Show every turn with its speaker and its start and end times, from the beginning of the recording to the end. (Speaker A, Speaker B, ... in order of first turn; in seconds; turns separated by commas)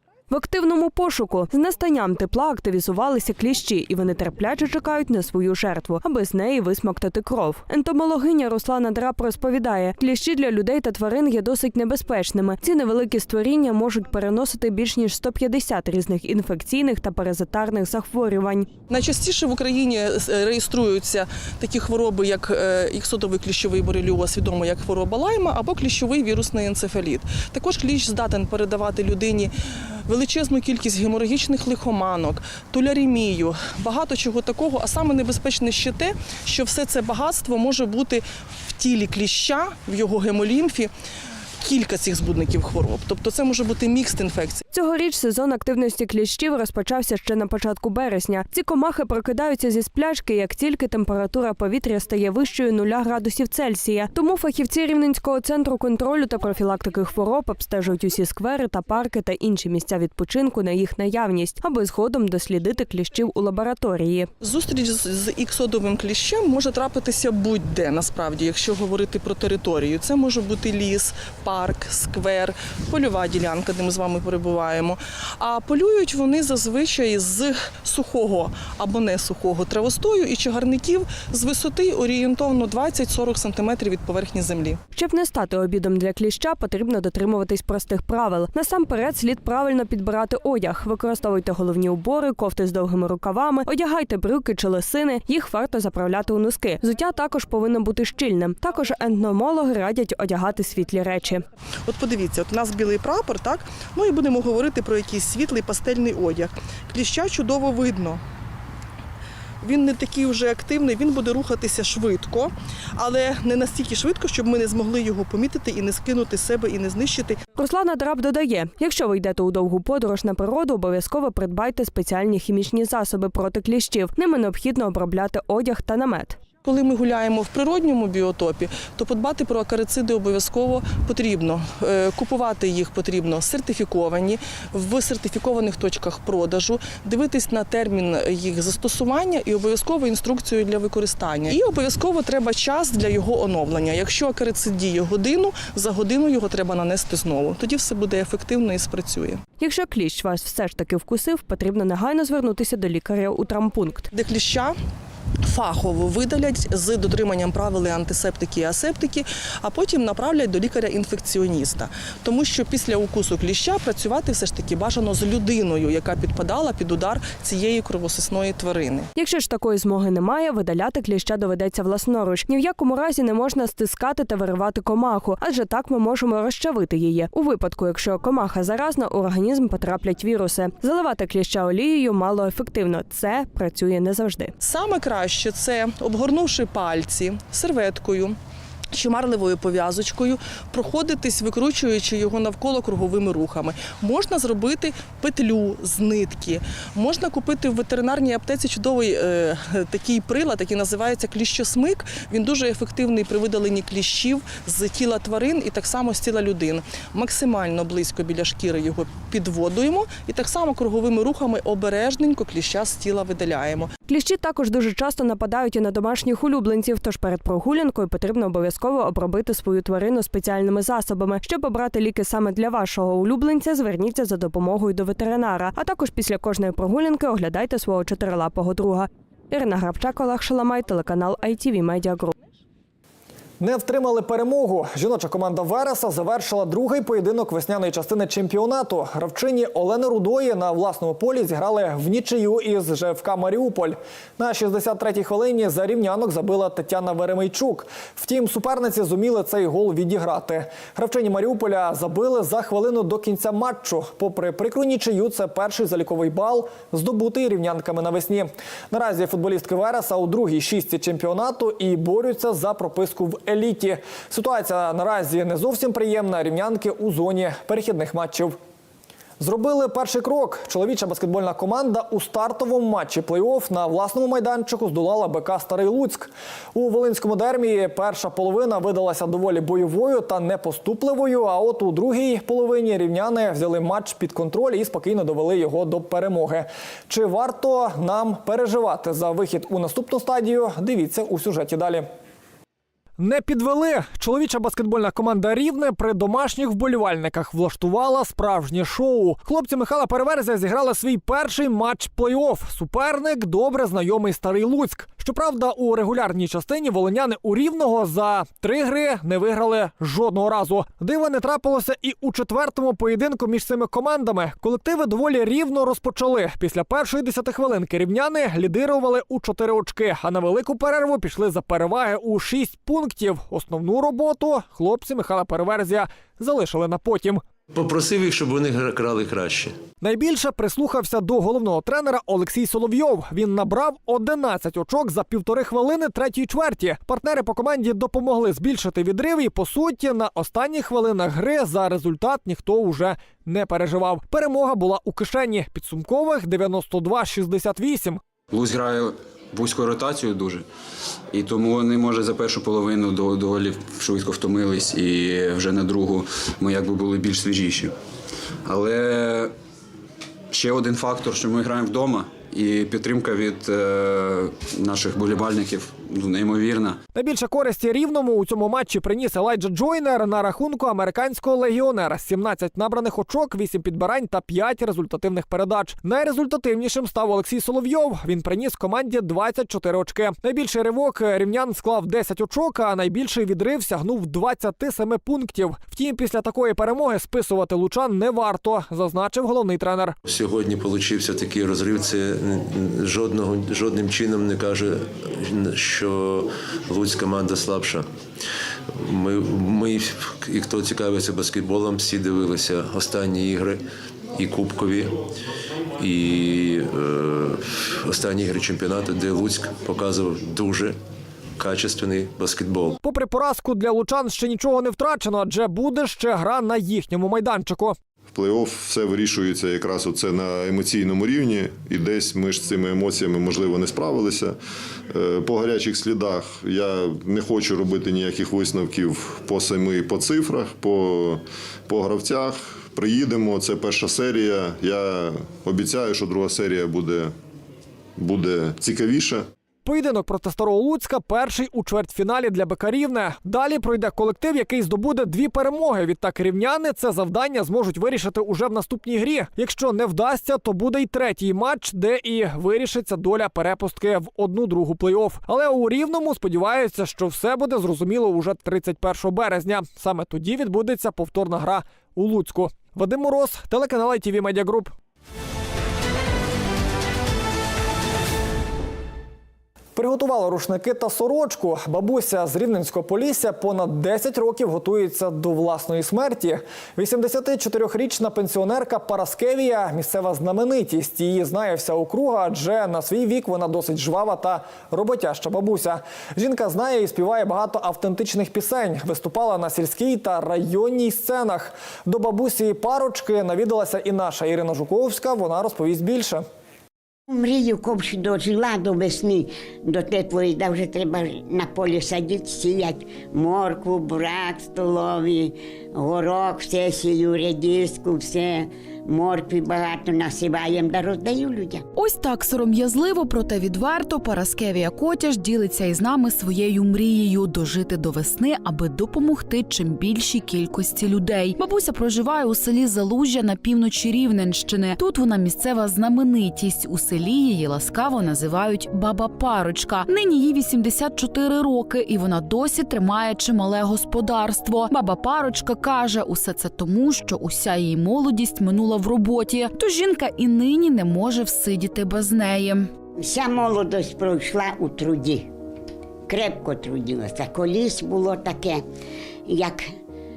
Speaker A: 0.3-18.7, Speaker B: 18.9-29.5, Speaker B: 30.1-40.9, Speaker B: 41.6-44.6, Speaker A: 44.7-64.3, Speaker B: 64.4-84.8, Speaker A: 84.9-101.4, Speaker B: 101.9-108.2, Speaker B: 109.6-117.4, Speaker A: 117.6-126.4, Speaker B: 126.7-149.4, Speaker A: 149.6-154.1, Speaker B: 154.1-154.8, Speaker B: 155.4-169.1, Speaker A: 169.2-184.5, Speaker B: 184.6-188.4, Speaker B: 188.9-213.9, Speaker A: 214.1-232.4, Speaker C: 233.6-268.6, Speaker C: 269.4-292.1, Speaker C: 293.2-327.4, Speaker D: 327.7-329.8, Speaker C: 330.0-348.2, Speaker E: 348.5-350.6, Speaker E: 351.3-357.9, Speaker E: 358.6-359.5, Speaker E: 360.5-367.0, Speaker C: 367.1-390.2, Speaker D: 390.3-398.1, Speaker D: 398.9-403.8, Speaker D: 404.3-405.2, Speaker D: 406.0-411.0, Speaker D: 411.6-413.0, Speaker C: 413.0-418.0, Speaker F: 418.3-424.6, Speaker F: 425.1-437.3, Speaker F: 438.2-439.5, Speaker C: 439.9-464.9, Speaker C: 469.9-496.4, Speaker G: 497.3-511.9, Speaker H: 512.0-542.9, Speaker G: 543.2-545.5, Speaker G: 546.3-548.8, Speaker G: 549.5-549.9